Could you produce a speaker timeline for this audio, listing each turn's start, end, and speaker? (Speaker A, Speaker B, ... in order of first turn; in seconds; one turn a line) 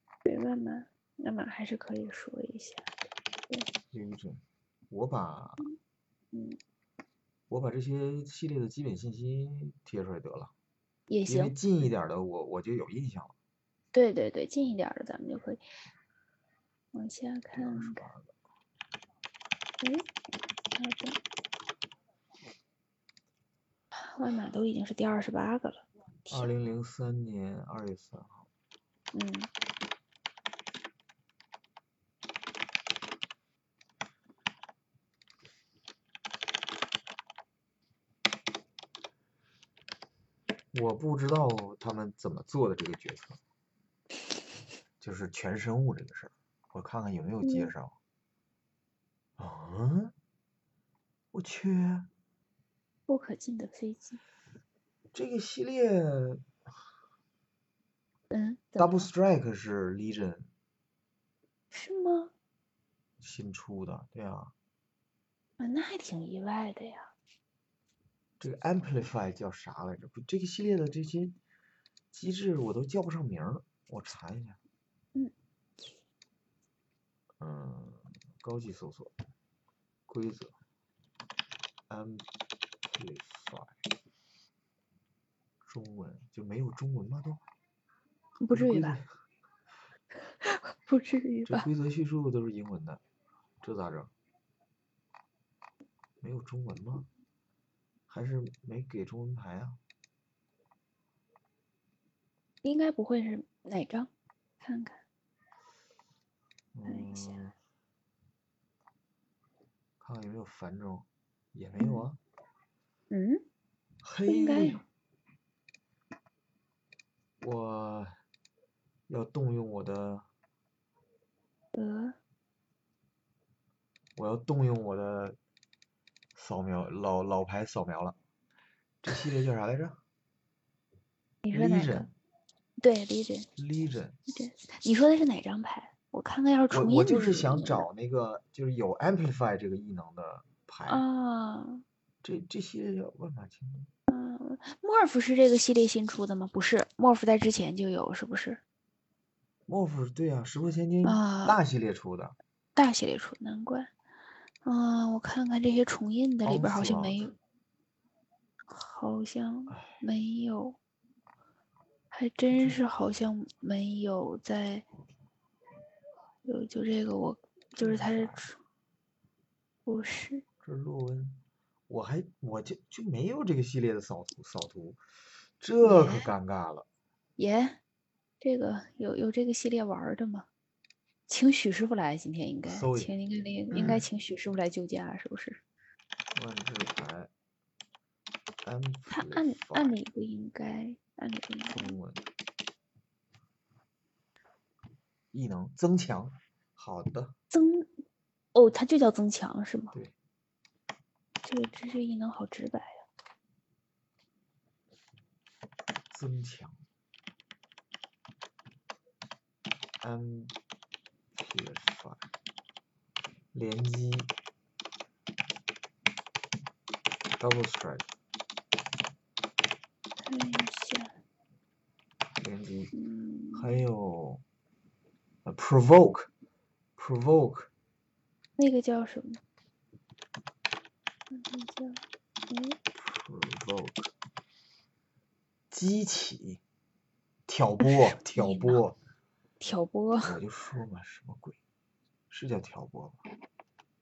Speaker A: 0.2-2.9
Speaker B: 3.9-5.6
Speaker A: 6.3-6.6
Speaker B: 7.5-10.5
Speaker A: 11.1-11.6
Speaker B: 11.2-13.3
Speaker A: 13.9-15.6
Speaker A: 16.9-18.0
Speaker B: 17.5-18.3
Speaker A: 20.8-21.2
Speaker A: 24.1-26.5
Speaker B: 26.3-28.5
Speaker A: 29.1-29.5
Speaker B: 40.7-43.4
Speaker B: 45.0-47.9
Speaker A: 47.4-47.7
Speaker B: 49.4-50.1
Speaker B: 51.3-52.1
Speaker A: 53.1-54.2
Speaker B: 55.1-56.4
Speaker A: 58.3-59.1
Speaker B: 58.8-60.5
Speaker A: 61.7-62.3
Speaker B: 63.2-64.5
Speaker A: 65.6-67.1
Speaker B: 68.4-71.3
Speaker B: 72.1-74.6
Speaker B: 77.4-79.1
Speaker B: 80.1-80.5
Speaker B: 81.9-82.2
Speaker B: 82.9-83.7
Speaker B: 85.6-87.4
Speaker A: 88.4-89.0
Speaker B: 88.5-89.0
Speaker A: 90.4-91.7
Speaker B: 91.5-93.0
Speaker B: 93.6-94.1
Speaker B: 96.2-97.1
Speaker B: 98.1-99.8
Speaker A: 102.6-104.1
Speaker A: 104.6-105.0
Speaker B: 106.7-107.5
Speaker A: 106.9-107.4
Speaker B: 110.0-112.2
Speaker A: 111.8-112.0
Speaker A: 113.1-113.4
Speaker B: 114.0-114.8
Speaker A: 114.3-114.8
Speaker B: 117.4-118.1
Speaker B: 119.1-120.2
Speaker A: 121.7-122.1
Speaker B: 124.2-125.4
Speaker B: 126.3-128.2
Speaker B: 129.0-130.0
Speaker A: 131.4-132.1
Speaker B: 131.5-132.1
Speaker A: 132.8-133.5
Speaker B: 133.6-134.2
Speaker A: 134.3-137.9
Speaker B: 136.7-141.0
Speaker A: 140.9-141.8
Speaker B: 142.2-143.9
Speaker A: 144.1-148.6
Speaker B: 149.7-152.3
Speaker A: 151.0-151.6
Speaker A: 152.7-153.9
Speaker A: 154.6-157.3
Speaker B: 156.4-157.3
Speaker A: 158.7-160.8
Speaker A: 162.1-164.8
Speaker B: 162.5-162.8
Speaker A: 166.4-168.6
Speaker B: 167.8-168.5
Speaker A: 169.8-170.4
Speaker B: 170.6-175.0
Speaker B: 175.6-176.9
Speaker A: 175.8-176.3
Speaker A: 177.4-177.8
Speaker A: 178.4-180.5
Speaker A: 181.3-185.6
Speaker B: 182.7-183.1
Speaker B: 183.7-184.1
Speaker B: 186.3-187.3
Speaker B: 188.6-189.9
Speaker A: 189.1-192.0
Speaker B: 191.7-192.2
Speaker B: 195.3-197.3
Speaker A: 197.5-197.9
Speaker A: 198.5-199.9
Speaker A: 201.4-203.0
Speaker B: 206.1-206.8
Speaker B: 210.0-210.5
Speaker B: 211.3-212.2
Speaker B: 213.5-214.3
Speaker B: 217.4-218.1
Speaker A: 220.2-221.1
Speaker B: 222.4-222.9
Speaker A: 222.9-223.8
Speaker B: 223.5-224.4
Speaker B: 225.4-226.3
Speaker B: 227.0-227.7
Speaker A: 228.6-229.4
Speaker A: 231.3-232.8
Speaker B: 232.9-234.1
Speaker B: 235.7-236.6
Speaker B: 237.5-239.0
Speaker A: 237.8-238.8
Speaker A: 239.6-240.4
Speaker B: 240.2-241.6
Speaker B: 242.3-243.2